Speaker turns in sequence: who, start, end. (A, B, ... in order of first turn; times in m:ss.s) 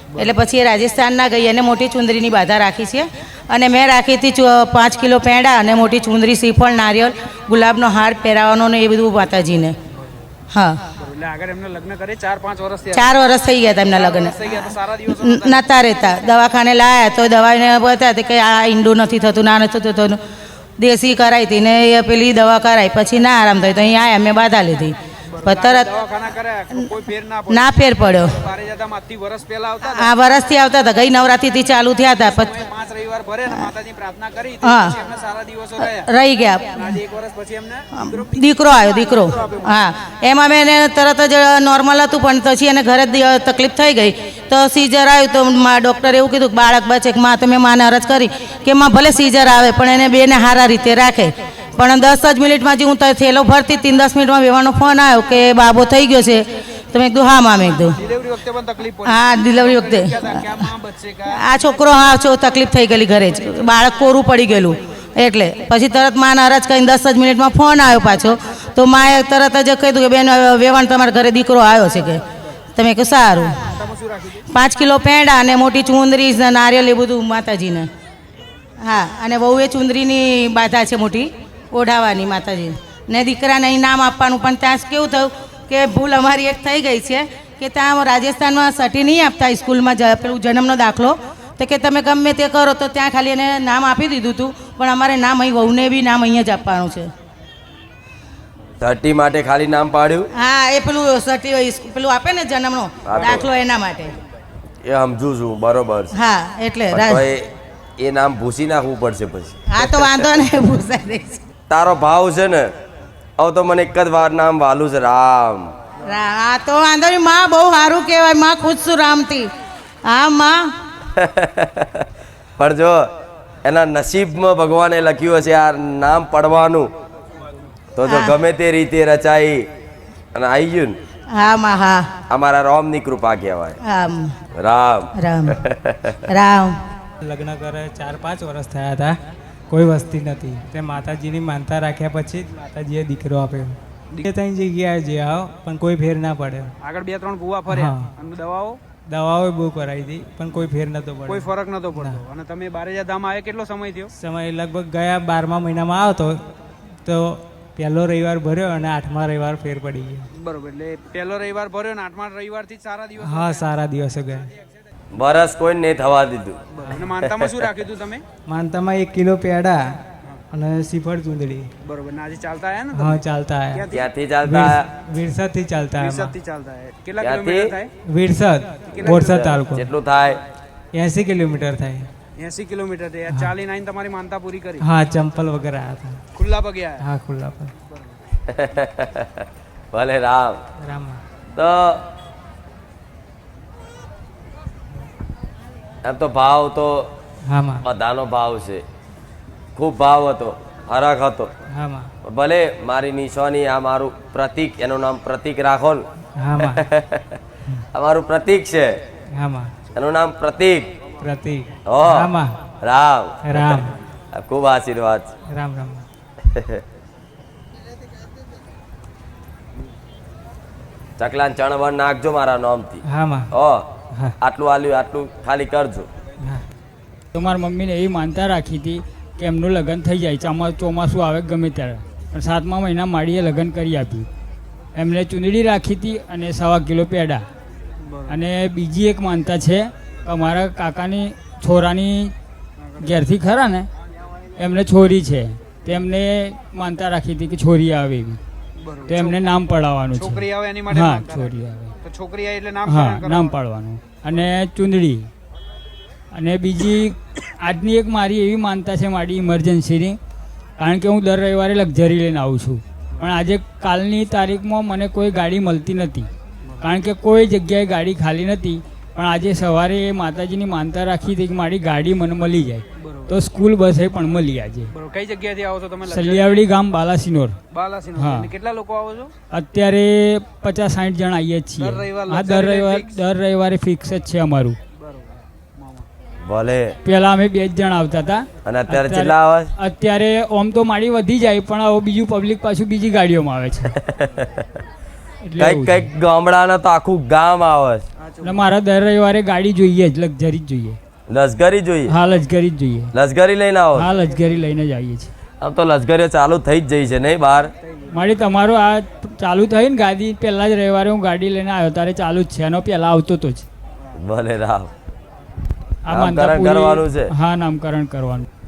0:00.2-0:09.8 A
0:10.5-0:10.8 A
0:11.0-0:13.1 B
0:12.9-0:14.5 A
0:13.8-0:16.1 B
0:15.0-0:20.2 A
0:20.8-0:25.9 A
0:25.3-0:30.2 B
0:27.5-0:28.4 A
0:29.9-0:32.6 A
0:32.0-0:36.1 B
0:34.6-0:35.0 A
0:35.8-0:36.9 A
0:36.8-0:39.6 B
0:38.0-0:58.0 A
0:58.0-1:02.0 B
0:59.0-1:00.6 A
1:01.3-1:12.2 A
1:12.8-1:13.8 A
1:13.7-1:14.4 B
1:14.5-1:17.9 A
1:18.8-1:37.1 A
1:38.8-1:40.3 C
1:40.4-1:44.1 A
1:43.0-1:43.5 C
1:44.8-1:46.1 C
1:46.1-1:47.3 A
1:46.9-1:50.3 C
1:49.7-1:51.4 A
1:51.7-1:52.7 C
1:53.4-1:55.7 C
1:56.0-1:59.5 A
2:00.1-2:00.6 A
2:01.2-2:02.0 C
2:02.6-2:03.1 C
2:03.6-2:06.9 C
2:08.0-2:09.7 C
2:08.0-2:08.4 A
2:10.4-2:11.0 C
2:11.3-2:12.1 A
2:12.3-2:13.8 C
2:13.8-2:14.3 A
2:14.6-2:16.2 C
2:15.2-2:15.6 A
2:16.3-2:16.8 A
2:17.2-2:19.1 D
2:19.7-2:23.8 D
2:24.3-2:26.7 D
2:26.8-2:28.8 B
2:27.7-2:28.1 D
2:29.1-2:32.2 D
2:31.3-2:34.1 B
2:34.2-2:36.4 D
2:37.0-2:40.3 D
2:40.4-2:43.7 B
2:43.2-2:44.5 D
2:45.2-2:46.6 C
2:46.8-2:48.2 B
2:47.2-2:47.5 C
2:48.5-2:49.8 D
2:50.5-2:51.7 D
2:51.8-2:54.1 B
2:53.0-2:53.8 D
2:53.9-2:54.9 C
2:54.4-2:56.3 D
2:56.0-2:57.9 B
2:57.2-2:57.8 C
2:58.1-2:59.9 D
2:58.9-2:59.2 B
2:59.0-3:00.4 C
3:00.9-3:02.1 D
3:02.4-3:04.8 B
3:04.8-3:06.2 D
3:06.4-3:07.0 B
3:07.0-3:07.7 D
3:08.5-3:09.3 C
3:09.9-3:10.6 C
3:10.8-3:11.2 D
3:11.6-3:12.0 C
3:16.0-3:17.1 C
3:17.5-3:17.8 D
3:17.8-3:18.8 C
3:19.8-3:21.5 C
3:21.7-3:22.1 D
3:22.2-3:26.0 C
3:26.4-3:26.8 D
3:26.6-3:27.2 C
3:27.9-3:29.0 C
3:29.4-3:29.7 D
3:29.9-3:30.9 C
3:31.2-3:32.5 D
3:31.8-3:33.8 C
3:33.4-3:34.0 D
3:34.3-3:35.3 C
3:35.5-3:36.0 D
3:36.5-3:36.8 C
3:41.2-3:43.8 C
3:43.1-3:43.5 D
3:44.4-3:46.1 C
3:47.3-3:54.3 E
3:55.0-3:57.4 E
3:58.3-4:02.3 E
4:03.0-4:03.9 E
4:04.6-4:08.4 E
4:08.8-4:09.5 B
4:09.1-4:11.9 E
4:10.2-4:13.6 B
4:12.9-4:15.3 E
4:16.3-4:20.2 E
4:20.8-4:26.3 E
4:26.8-4:34.9 E
4:33.0-4:33.3 B
4:35.0-4:36.6 B
4:36.1-4:37.6 E
4:37.7-4:39.3 B
4:38.2-4:38.5 E
4:39.5-4:44.8 E
4:41.8-4:43.2 B
4:45.0-4:46.1 B
4:46.4-4:47.0 C
4:47.0-4:53.9 E
4:48.6-4:49.7 C
4:53.9-4:54.4 C
4:55.4-4:56.1 E
4:55.6-4:58.0 C
4:58.2-4:58.6 B
4:58.4-5:01.0 E
5:01.3-5:02.2 C
5:02.1-5:03.1 E
5:03.1-5:04.1 C
5:04.0-5:05.3 E
5:05.6-5:07.7 C
5:08.1-5:13.6 E
5:14.2-5:14.9 C
5:16.1-5:18.5 E
5:16.1-5:17.3 C